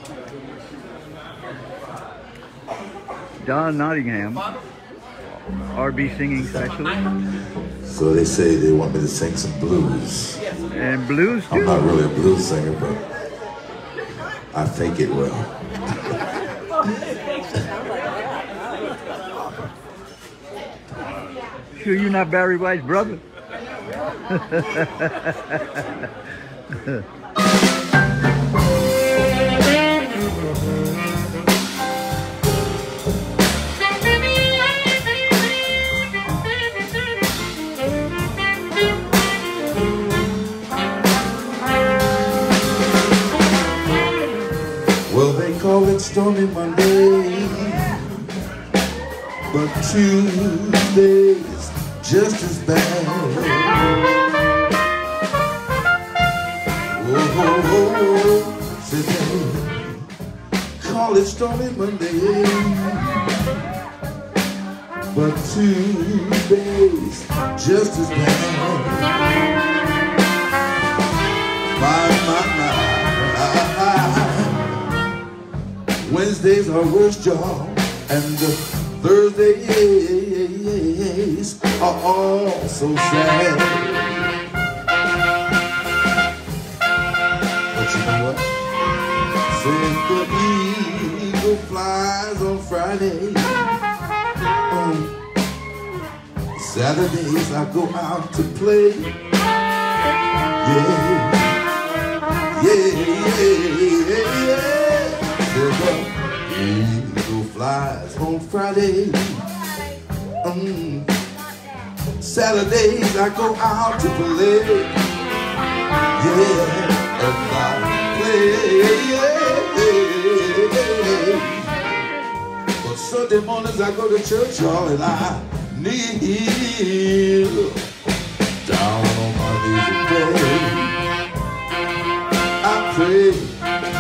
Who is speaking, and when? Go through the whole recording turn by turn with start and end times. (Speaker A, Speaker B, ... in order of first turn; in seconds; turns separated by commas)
Speaker A: 3.4-4.5, Speaker A: 5.7-7.1, Speaker B: 7.8-10.4, Speaker A: 10.7-11.9, Speaker B: 11.5-13.1, Speaker B: 14.5-16.3, Speaker A: 21.8-23.2, Speaker A: 24.3-26.0, Speaker B: 45.1-48.3, Speaker B: 49.5-53.9, Speaker B: 56.9-60.0, Speaker B: 60.8-63.2, Speaker B: 65.1-69.2, Speaker B: 71.8-74.7, Speaker B: 76.0-84.3, Speaker B: 87.7-88.5, Speaker B: 89.5-93.7, Speaker B: 94.7-95.2, Speaker B: 96.5-99.2, Speaker B: 100.6-101.6, Speaker B: 102.5-109.4, Speaker B: 110.4-111.2, Speaker B: 112.2-115.0, Speaker B: 116.2-121.7, Speaker B: 122.8-127.9, Speaker B: 128.6-131.0, Speaker B: 132.6-133.6